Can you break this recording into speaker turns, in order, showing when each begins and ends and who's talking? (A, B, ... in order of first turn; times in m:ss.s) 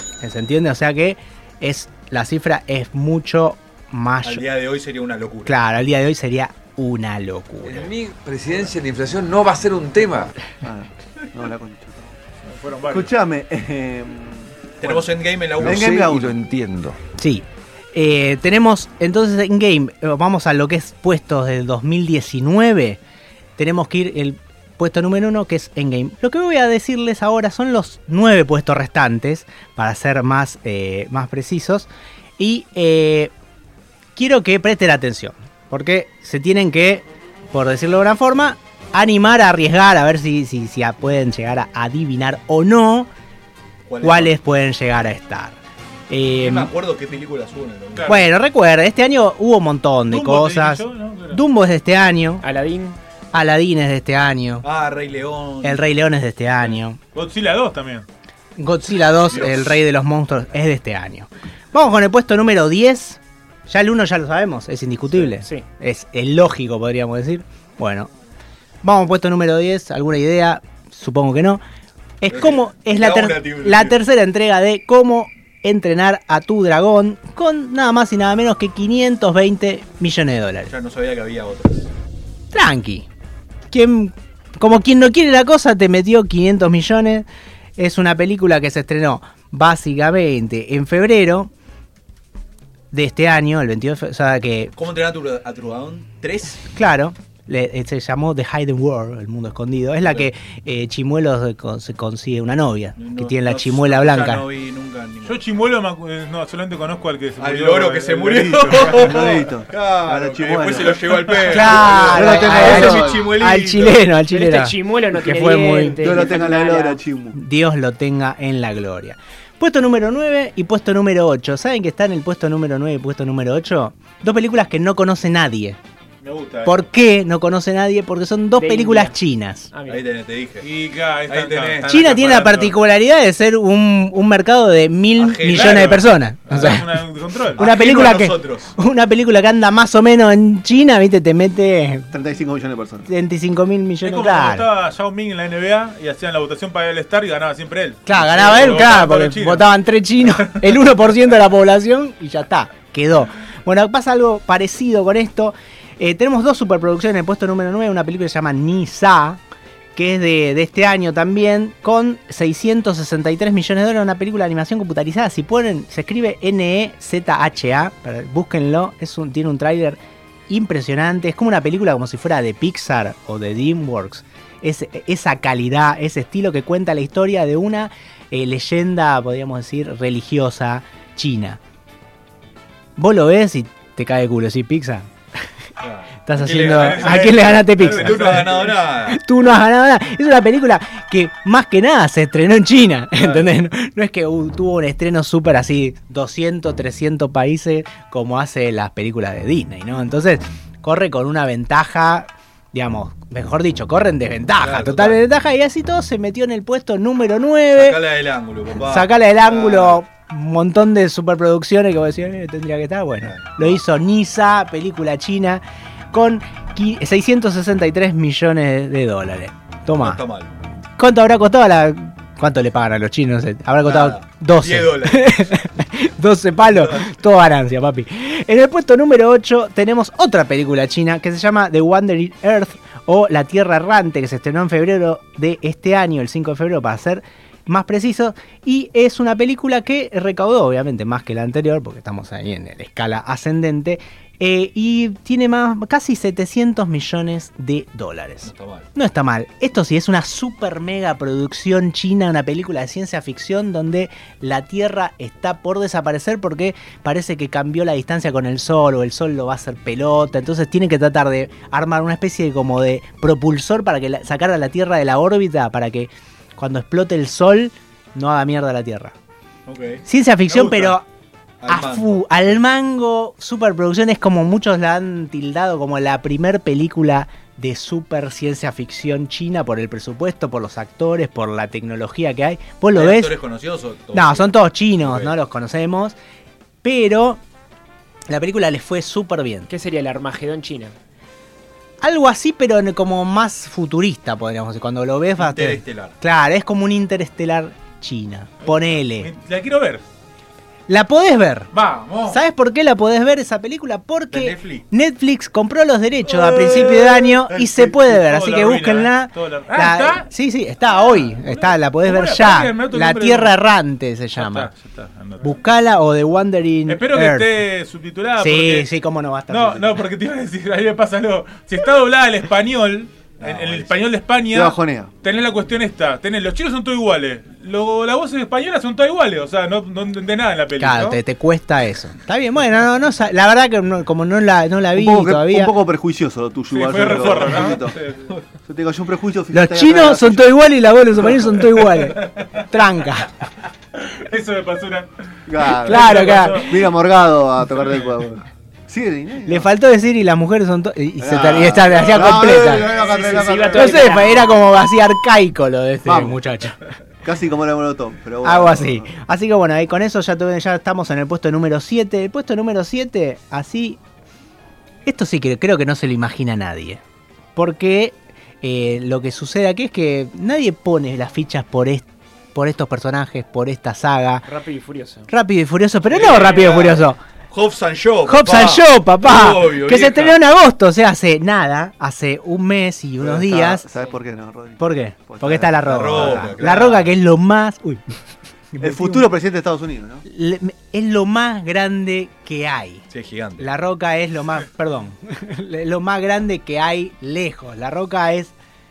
0:00.2-0:04.4 A
0:04.2-0:05.6 B
0:05.4-0:07.9 A
0:07.7-0:10.4 C
0:10.6-0:11.9 D
0:12.4-0:13.1 E
0:12.9-0:16.4 D
0:14.8-0:16.2 B
0:15.6-0:17.0 C
0:17.2-0:23.0 A
0:23.6-0:33.3 A
0:34.2-0:43.1 A
0:43.9-0:44.4 B
0:44.0-0:45.6 A
0:46.1-0:46.7 A
0:46.3-0:48.2 B
0:48.0-0:48.3 E
0:48.1-0:52.4 A
0:50.1-0:51.4 E
0:52.4-0:53.0 F
0:53.3-0:54.6 A
0:54.6-0:55.8 B
0:55.6-0:57.0 A
0:57.1-0:58.1 E
0:58.6-1:08.1 A
0:59.3-0:59.8 B
1:05.4-1:05.6 F
1:08.8-1:11.6 A
1:12.2-1:20.7 A
1:12.3-1:14.0 B
1:20.7-1:21.9 B
1:22.5-1:23.1 A
1:23.7-1:31.5 A
1:32.9-1:34.7 A
1:34.8-1:36.6 B
1:36.7-1:44.5 A
1:43.0-1:45.5 B
1:45.2-1:49.1 E
1:47.4-1:54.1 B
1:48.9-1:53.3 D
1:51.4-1:56.3 A
1:54.3-1:57.0 F
1:56.0-1:57.4 D
1:57.3-2:05.8 A
2:06.2-2:06.8 E
2:06.6-2:09.7 A
2:08.5-2:09.2 F
2:09.7-2:10.1 F
2:09.9-2:10.7 B
2:10.6-2:12.8 E
2:11.3-2:12.0 B
2:11.9-2:22.1 A
2:15.2-2:16.0 B
2:15.5-2:17.6 E
2:17.6-2:18.7 B
2:22.1-2:23.1 D
2:23.1-2:24.7 A
2:24.0-2:29.7 E
2:28.1-2:39.4 A
2:40.0-3:01.6 A
3:03.0-3:05.1 A
3:05.8-3:09.2 B
3:06.3-3:28.0 A
3:06.6-3:08.7 E
3:13.2-3:13.4 B
3:24.6-3:25.2 B
3:27.8-3:30.0 B
3:28.8-3:40.2 A
3:33.2-3:33.8 B
3:40.0-3:40.6 B
3:41.0-4:29.2 A
3:43.8-3:45.6 B
3:46.7-3:47.1 B
4:08.5-4:08.9 B
4:29.7-4:31.0 B
4:30.1-4:31.0 A
4:31.6-4:32.6 B
4:31.7-4:43.4 A
4:42.9-4:45.4 B
4:44.1-4:46.2 A
4:46.8-4:47.4 A
4:48.3-4:49.7 A
4:49.7-4:51.0 F
4:52.0-4:59.3 A
4:55.4-4:56.1 B
4:58.6-5:00.0 E
5:00.9-5:01.7 A
5:01.7-5:02.4 E
5:02.3-5:14.7 A
5:04.3-5:04.8 B
5:06.3-5:10.3 E
5:11.3-5:13.6 E
5:14.4-5:15.5 E
5:15.4-5:17.5 A
5:16.9-5:18.9 E
5:18.4-5:20.0 A
5:19.5-5:31.2 E
5:23.4-5:24.0 B
5:24.5-5:25.1 D
5:30.8-5:35.7 A
5:34.9-5:38.0 D
5:36.7-5:38.3 E
5:38.7-5:40.4 D
5:39.5-5:43.3 A
5:42.0-5:42.7 E
5:44.0-5:45.1 E
5:45.5-5:49.7 D
5:45.6-5:46.8 E
5:45.8-5:46.7 A
5:49.5-5:52.9 A
5:51.2-5:54.5 D
5:53.0-5:54.6 F
5:53.6-5:56.8 A
5:56.0-5:56.4 D
5:57.2-5:59.1 D
5:58.4-6:04.0 A
6:05.1-6:07.0 A
6:07.6-6:14.5 A
6:14.5-6:15.3 F
6:15.3-6:17.2 A
6:16.1-6:20.4 B
6:18.2-6:23.9 A
6:23.2-6:26.6 D
6:24.8-6:28.0 A
6:25.7-6:27.1 B
6:28.7-6:29.3 A
6:28.8-6:30.2 D
6:30.2-6:33.0 A
6:33.1-6:33.7 B
6:33.6-6:38.5 A